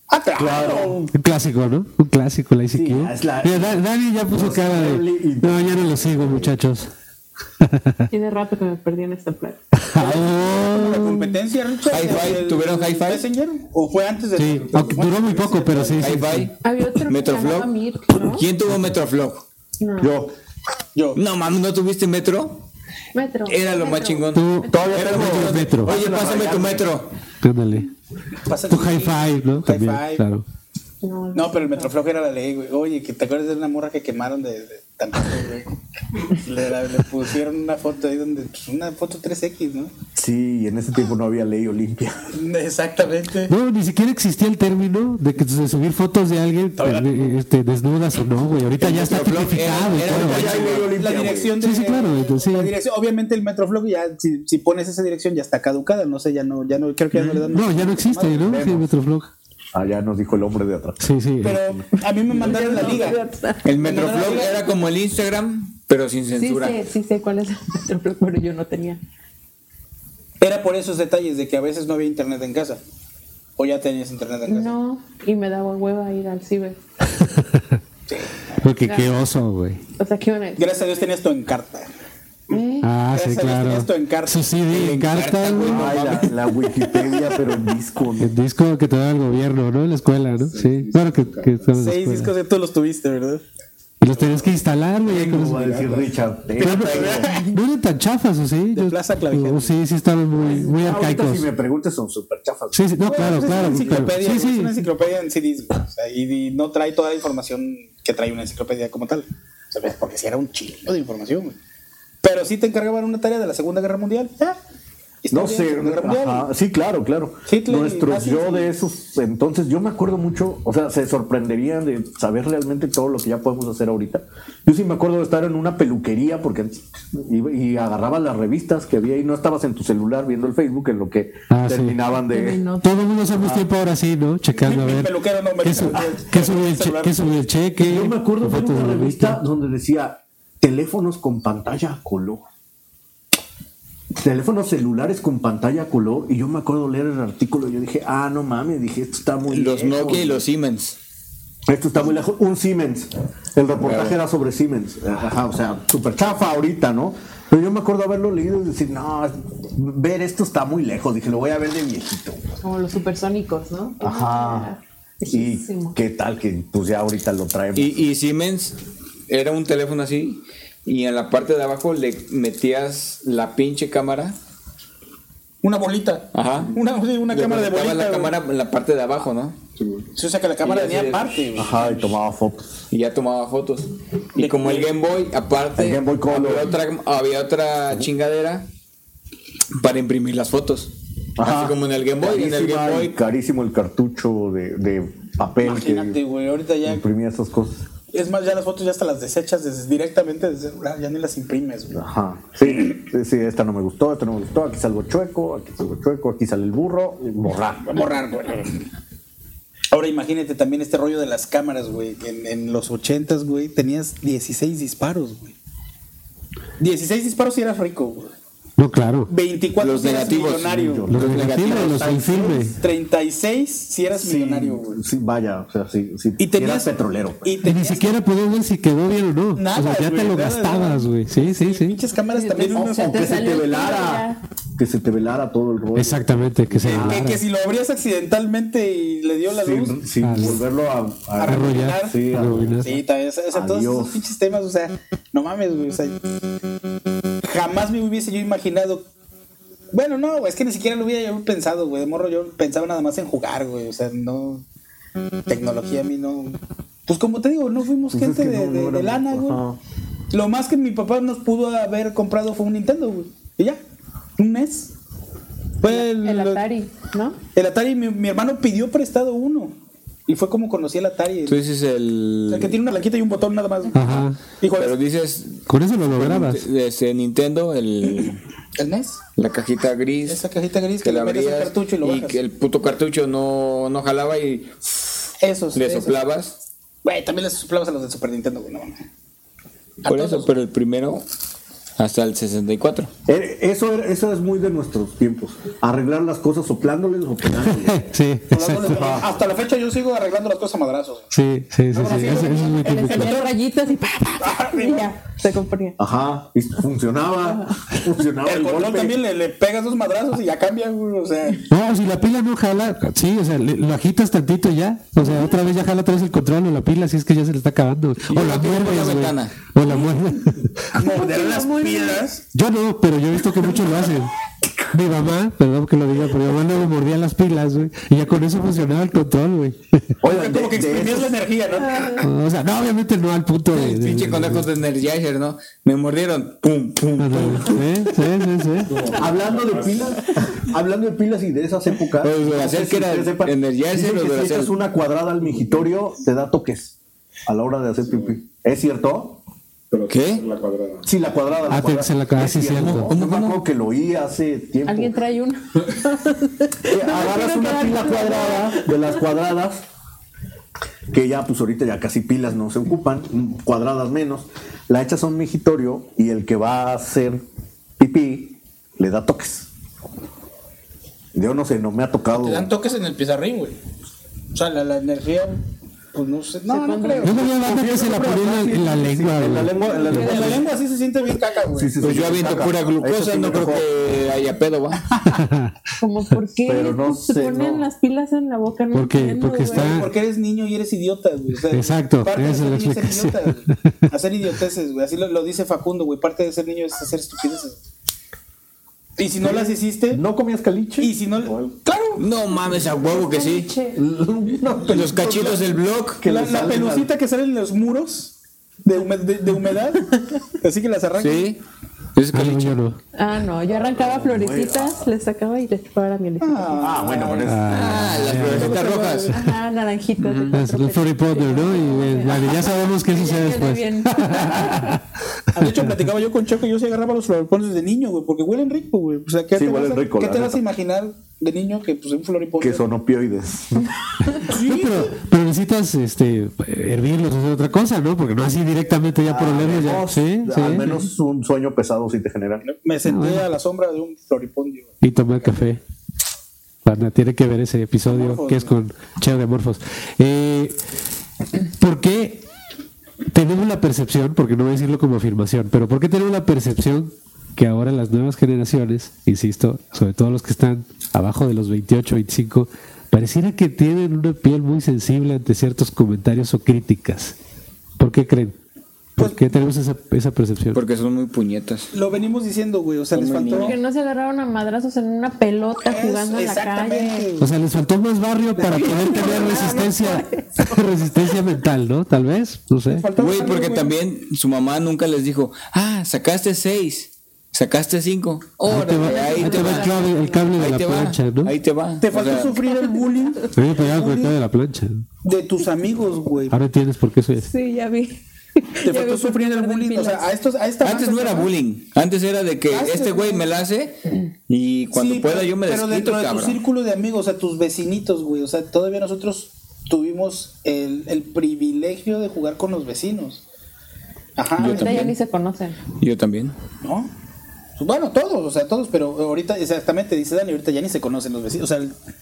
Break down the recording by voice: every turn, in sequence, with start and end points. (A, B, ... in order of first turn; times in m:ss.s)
0:00.1-0:01.1 A
0:00.4-0:01.1 B
0:01.1-0:06.9 C
0:02.7-0:06.5 B
0:07.6-0:08.0 C
0:08.1-0:09.6 D
0:09.8-0:11.4 C
0:10.0-0:16.2 A
0:11.9-0:13.2 E
0:14.4-0:16.5 C
0:16.0-0:19.4 E
0:16.6-0:18.5 D
0:19.8-0:20.1 D
0:20.0-0:20.3 B
0:21.1-0:22.6 E
0:23.1-0:24.8 D
0:23.5-0:27.1 E
0:24.3-0:25.9 C
0:24.7-0:26.9 B
0:27.4-0:27.9 C
0:28.5-0:30.2 A
0:28.7-0:30.4 C
0:31.0-0:31.9 D
0:31.4-0:39.9 A
0:40.2-0:42.3 B
0:42.3-0:43.5 A
0:43.5-0:50.5 C
0:46.8-0:47.4 A
0:48.8-0:51.0 E
0:50.0-0:51.6 B
0:50.4-0:58.7 A
0:51.6-0:52.7 C
0:57.1-0:59.3 C
0:58.4-0:58.9 B
0:59.7-1:01.8 B
1:01.0-1:01.6 C
1:01.4-1:03.2 A
1:02.3-1:04.5 D
1:03.6-1:06.8 E
1:03.8-1:04.6 A
1:06.4-1:09.0 D
1:10.4-1:12.8 A
1:13.6-1:14.7 A
1:14.5-1:16.8 D
1:17.2-1:17.8 C
1:18.1-1:18.3 A
1:18.6-1:19.8 C
1:18.8-1:19.2 D
1:20.0-1:20.7 D
1:20.6-1:21.9 A
1:22.5-1:22.9 D
1:22.8-1:25.9 C
1:23.1-1:24.6 A
1:24.7-1:26.4 E
1:25.6-1:28.3 B
1:28.2-1:32.3 C
1:31.8-1:33.4 A
1:34.0-1:36.0 C
1:34.1-1:34.5 A
1:35.1-1:37.3 B
1:36.6-1:41.5 C
1:36.6-1:37.5 A
1:38.7-1:39.8 A
1:40.5-1:44.1 B
1:42.7-1:44.7 C
1:43.0-1:51.6 A
1:52.2-1:54.6 A
1:55.2-1:56.5 A
1:55.3-2:12.6 B
1:57.5-1:58.7 A
2:11.5-2:12.0 C
2:12.3-2:13.0 D
2:12.8-2:19.4 C
2:13.4-2:13.7 B
2:14.5-2:17.3 A
2:17.8-2:22.4 B
2:24.2-2:30.4 B
2:29.5-2:31.0 E
2:31.7-2:42.4 B
2:33.8-2:34.2 E
2:42.6-2:46.0 D
2:44.0-2:44.7 B
2:45.3-2:48.0 B
2:47.8-2:48.8 E
2:49.3-2:54.4 E
2:55.6-2:58.4 A
2:56.3-2:56.8 E
2:57.3-2:59.6 E
3:00.2-3:02.2 A
3:00.6-3:01.4 E
3:01.6-3:02.8 B
3:02.9-3:08.7 E
3:04.4-3:04.9 A
3:05.8-3:06.7 B
3:09.8-3:13.1 E
3:11.4-3:16.2 B
3:15.6-3:17.0 A
3:16.8-3:17.8 B
3:18.1-3:22.0 A
3:21.9-3:28.1 B
3:22.7-3:22.9 A
3:27.9-3:28.9 A
3:29.9-3:35.6 A
3:36.8-3:38.3 A
3:38.8-3:39.3 C
3:39.3-3:41.1 A
3:39.8-3:42.2 E
3:40.7-3:41.5 B
3:41.1-3:42.8 C
3:41.7-3:45.0 A
3:44.2-3:47.6 B
3:46.4-3:48.2 A
3:47.6-3:52.0 C
3:49.6-3:53.4 A
3:52.3-3:54.4 D
3:52.7-3:57.3 B
3:56.0-3:57.4 C
3:56.8-4:00.0 A
3:59.5-4:03.0 B
4:00.2-4:00.6 C
4:01.4-4:02.2 A
4:01.5-4:02.9 C
4:02.8-4:06.2 A
4:03.5-4:04.2 B
4:07.4-4:09.1 A
4:09.9-4:14.6 A
4:15.5-4:19.6 A
4:18.1-4:19.8 B
4:20.3-4:23.8 A
4:24.4-4:24.9 A
4:25.8-4:26.6 A
4:25.8-4:27.4 D
4:27.6-4:29.8 A
4:30.3-4:31.6 A
4:31.5-4:32.8 E
4:32.5-4:35.0 A
4:34.0-4:34.4 C
4:34.0-4:38.4 E
4:35.7-4:36.7 C
4:38.2-4:39.2 A
4:39.4-4:40.4 E
4:40.3-4:42.4 A
4:41.0-4:45.0 E
4:45.4-4:46.2 A
4:45.7-4:46.5 E
4:47.0-4:49.0 A
4:50.0-4:50.5 A
4:50.0-4:51.2 E
4:52.0-4:53.1 E
4:53.3-4:58.1 B
4:57.8-4:59.1 C
4:58.5-5:01.3 A
4:58.8-4:59.3 B
5:01.3-5:03.3 C
5:01.9-5:03.5 A
5:02.0-5:06.0 D
5:04.4-5:05.1 A
5:06.0-5:09.2 B
5:08.4-5:11.7 A
5:11.7-5:20.8 C
5:18.3-5:19.6 E
5:19.8-5:20.1 D
5:20.9-5:22.4 A
5:21.0-5:22.2 D
5:22.5-5:24.3 C
5:24.9-5:30.0 C
5:30.2-5:31.4 B
5:30.2-5:32.3 A
5:31.9-5:32.2 D
5:32.2-5:34.7 C
5:33.7-5:37.9 E
5:37.2-5:39.1 C
5:39.0-5:47.0 B
5:42.2-5:44.8 E
5:47.5-5:49.4 B
5:50.0-5:50.6 E
5:51.0-5:55.2 B
5:51.7-5:53.1 C
5:52.7-5:53.6 E
5:54.9-5:59.1 D
5:56.8-5:59.8 B
6:01.1-6:07.4 B
6:08.0-6:09.7 B
6:11.3-6:12.7 B
6:12.3-6:13.8 A
6:14.5-6:15.6 A
6:16.1-6:17.5 A
6:16.7-6:17.4 D
6:17.2-6:19.7 C
6:17.4-6:20.7 B
6:19.9-6:20.5 D
6:19.9-6:22.0 A
6:21.8-6:23.9 B
6:22.0-6:25.1 E
6:25.1-6:25.4 A
6:25.3-6:25.8 C
6:26.0-6:30.1 D
6:26.6-6:27.9 B
6:28.9-6:30.1 C
6:29.6-6:37.8 A
6:31.7-6:33.9 C
6:39.2-6:40.2 A
6:39.4-6:41.6 B
6:41.0-6:42.2 A
6:42.2-6:43.7 E
6:43.1-6:44.0 D
6:44.0-6:47.1 B
6:44.8-6:46.2 E
6:46.2-6:48.3 A
6:48.8-6:51.5 A
6:51.2-6:51.6 E
6:52.2-6:52.8 E
6:52.3-6:53.0 C
6:53.2-6:57.0 D
6:53.8-6:55.0 B
6:56.4-6:57.6 A
6:56.8-6:58.2 B
6:57.4-6:58.8 C
6:57.7-6:59.4 E
6:58.4-6:59.3 A
6:59.3-7:04.8 D
7:00.2-7:00.6 E
7:00.5-7:05.0 C
7:05.5-7:12.8 A
7:09.5-7:10.6 B
7:12.6-7:14.0 B
7:14.4-7:15.1 A
7:14.4-7:21.0 C
7:19.3-7:22.6 B
7:22.6-7:25.5 A
7:23.0-7:23.5 C
7:25.0-7:25.8 C
7:26.8-7:30.8 C
7:28.1-7:28.7 A
7:31.8-7:32.4 C
7:33.3-7:47.4 C
7:48.0-7:48.6 C
7:49.2-7:49.5 A
7:49.2-7:50.8 C
7:50.7-7:51.9 E
7:51.9-7:53.8 A
7:53.1-7:53.8 E
7:53.5-7:57.4 D
7:55.8-7:57.4 A
7:57.4-8:03.1 C
7:58.6-8:00.7 D
7:59.0-7:59.3 A
8:02.9-8:04.0 A
8:03.2-8:10.0 E
8:08.6-8:10.5 D
8:08.7-8:11.5 C
8:10.6-8:12.6 E
8:12.0-8:14.4 A
8:13.5-8:15.0 C
8:15.2-8:16.6 A
8:16.5-8:17.5 C
8:17.4-8:20.3 D
8:18.8-8:21.5 A
8:20.8-8:24.0 E
8:22.7-8:23.5 A
8:24.5-8:26.6 E
8:24.9-8:33.4 A
8:34.4-8:35.1 A
8:34.6-8:35.2 E
8:34.6-8:35.8 D
8:36.0-8:36.6 E
8:36.8-8:37.1 A
8:37.8-8:42.0 A